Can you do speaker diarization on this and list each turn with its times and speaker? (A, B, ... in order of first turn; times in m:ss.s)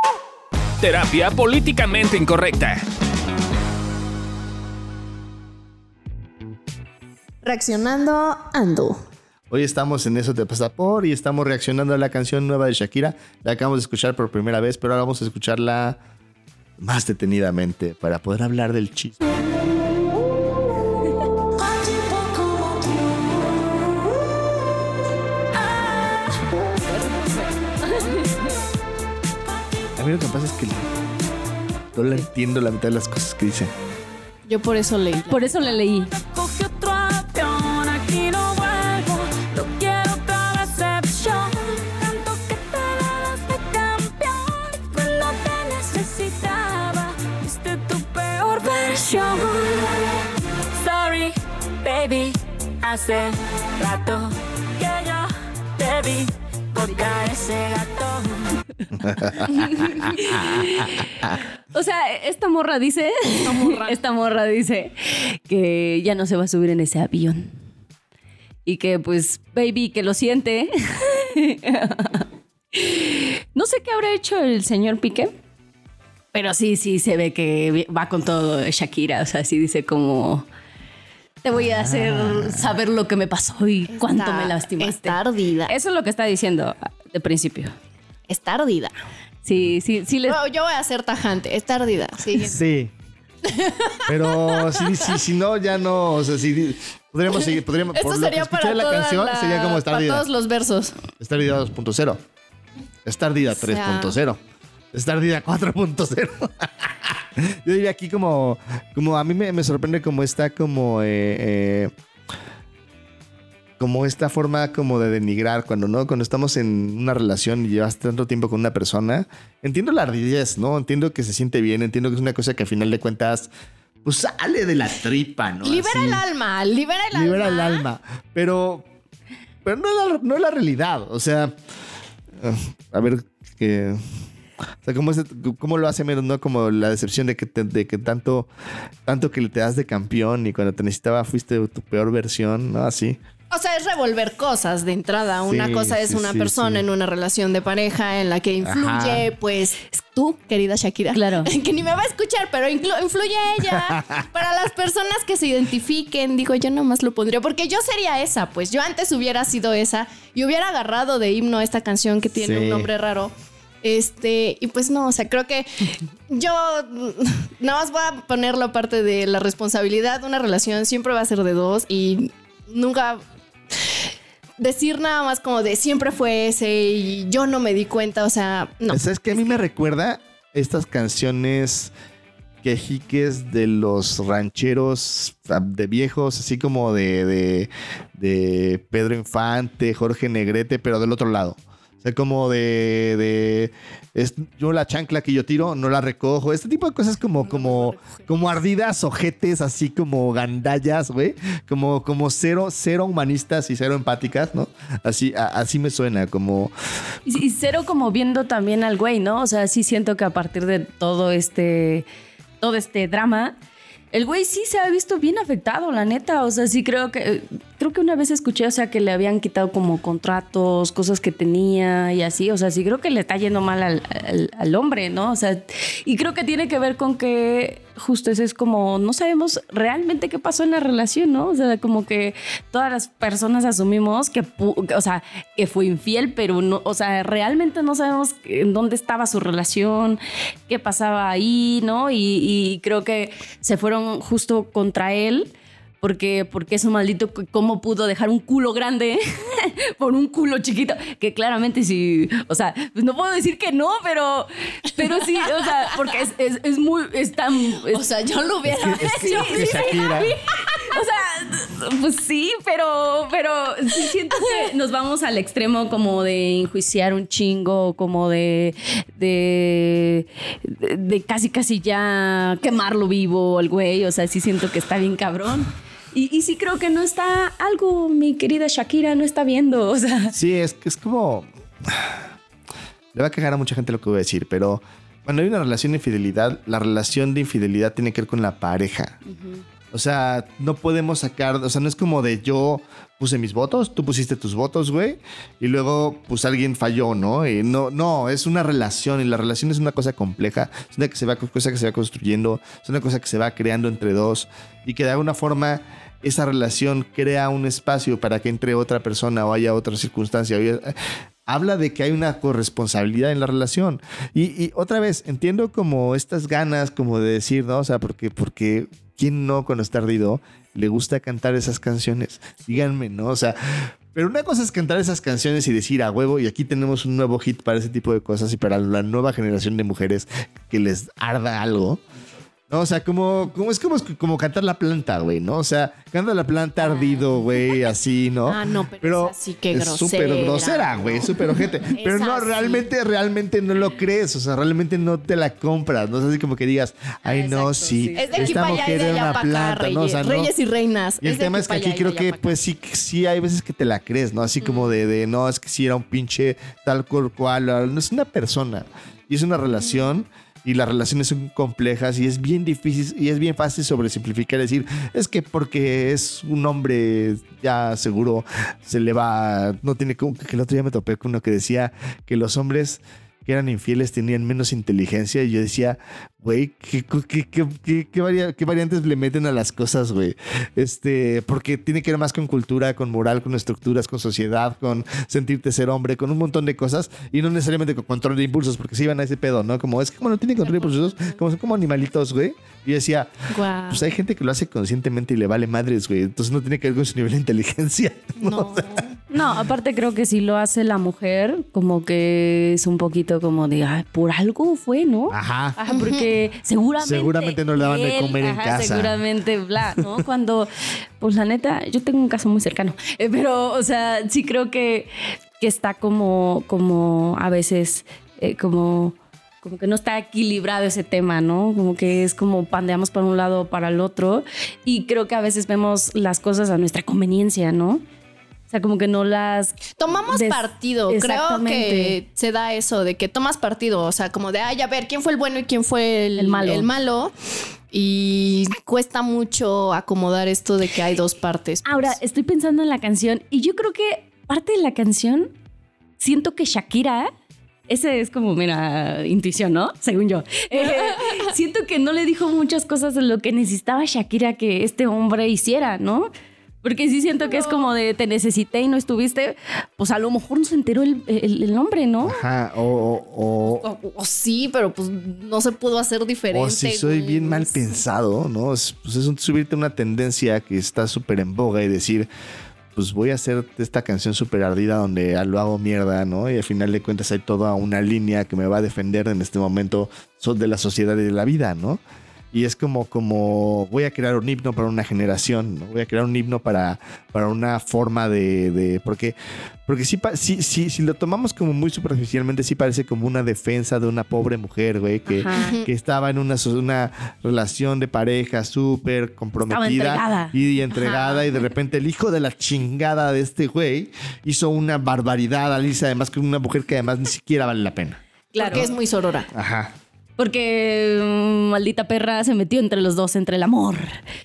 0:00.8-0:02.8 A
0:07.4-0:09.0 B
0:09.5-0:16.0 C
0:16.8-0:19.2 C
0:21.6-0:23.1 D
0:27.8-0:28.3 E
0:30.0-0:30.9 C
0:31.9-0:33.7 C
0:34.5-0:35.8 B
0:35.3-0:36.2 E
0:36.1-0:58.6 D
0:59.0-1:01.3 C
0:59.4-1:01.0 E
1:01.7-1:07.5 E
1:03.4-1:04.0 B
1:08.6-1:15.3 E
1:16.3-1:20.4 E
1:21.4-1:27.7 E
1:21.5-1:22.7 C
1:23.9-1:25.7 B
1:28.3-1:28.9 B
1:29.4-1:30.4 E
1:30.3-1:32.6 B
1:32.4-1:32.9 C
1:33.4-1:35.1 B
1:34.1-1:40.2 C
1:37.3-1:41.0 B
1:41.2-1:42.2 C
1:43.0-1:44.4 C
1:43.5-1:44.2 B
1:44.9-1:51.9 C
1:53.8-2:03.5 C
2:04.0-2:06.2 C
2:05.6-2:07.9 B
2:07.1-2:08.8 C
2:09.6-2:11.5 C
2:12.4-2:14.0 C
2:14.8-2:18.5 C
2:19.0-2:23.2 C
2:23.5-2:43.3 B
2:25.4-2:26.8 C
2:28.6-2:29.2 C
2:31.1-2:31.5 E
2:33.8-2:34.1 C
2:42.4-2:42.9 C
2:43.8-2:53.2 B
2:53.7-2:59.6 B
2:58.9-3:01.9 C
3:02.6-3:26.7 C
3:17.4-3:18.3 B
3:27.2-3:32.0 E
3:32.6-3:33.6 E
3:34.1-4:18.0 E
4:17.9-4:20.3 B
4:18.6-4:20.4 C
4:18.7-4:40.4 E
4:40.3-4:42.2 C
4:43.1-4:49.2 C
4:49.2-4:49.6 E
4:49.9-5:11.0 C
5:11.5-5:32.0 C
5:32.7-5:50.5 C
5:36.8-5:37.3 B
5:38.5-5:42.9 B
5:47.2-5:49.4 E
5:48.2-5:52.6 B
5:51.2-6:33.3 C
5:54.6-5:54.9 B
6:30.6-6:31.4 B
6:33.5-6:34.0 B
6:33.9-6:39.0 C
6:38.4-6:39.1 B
6:39.3-7:08.0 E
6:45.3-6:45.8 C
6:45.9-6:46.3 B
6:47.0-6:49.2 C
7:08.7-7:12.2 E
7:10.0-7:17.3 B
7:16.4-7:16.9 E
7:17.9-7:22.2 B
7:21.8-7:25.5 E
7:26.2-7:27.3 E
7:27.9-7:36.3 E
7:36.8-7:42.4 E
7:37.4-7:37.8 B
7:42.2-7:43.8 C
7:43.6-7:48.0 B
7:46.5-7:52.3 C
7:52.9-8:02.0 C
8:02.5-8:28.9 C
8:15.3-8:15.8 E
8:15.5-8:15.9 B
8:19.6-8:21.4 E
8:28.5-8:29.5 B
8:28.6-8:28.9 E
8:29.5-8:29.9 C
8:30.4-8:34.2 E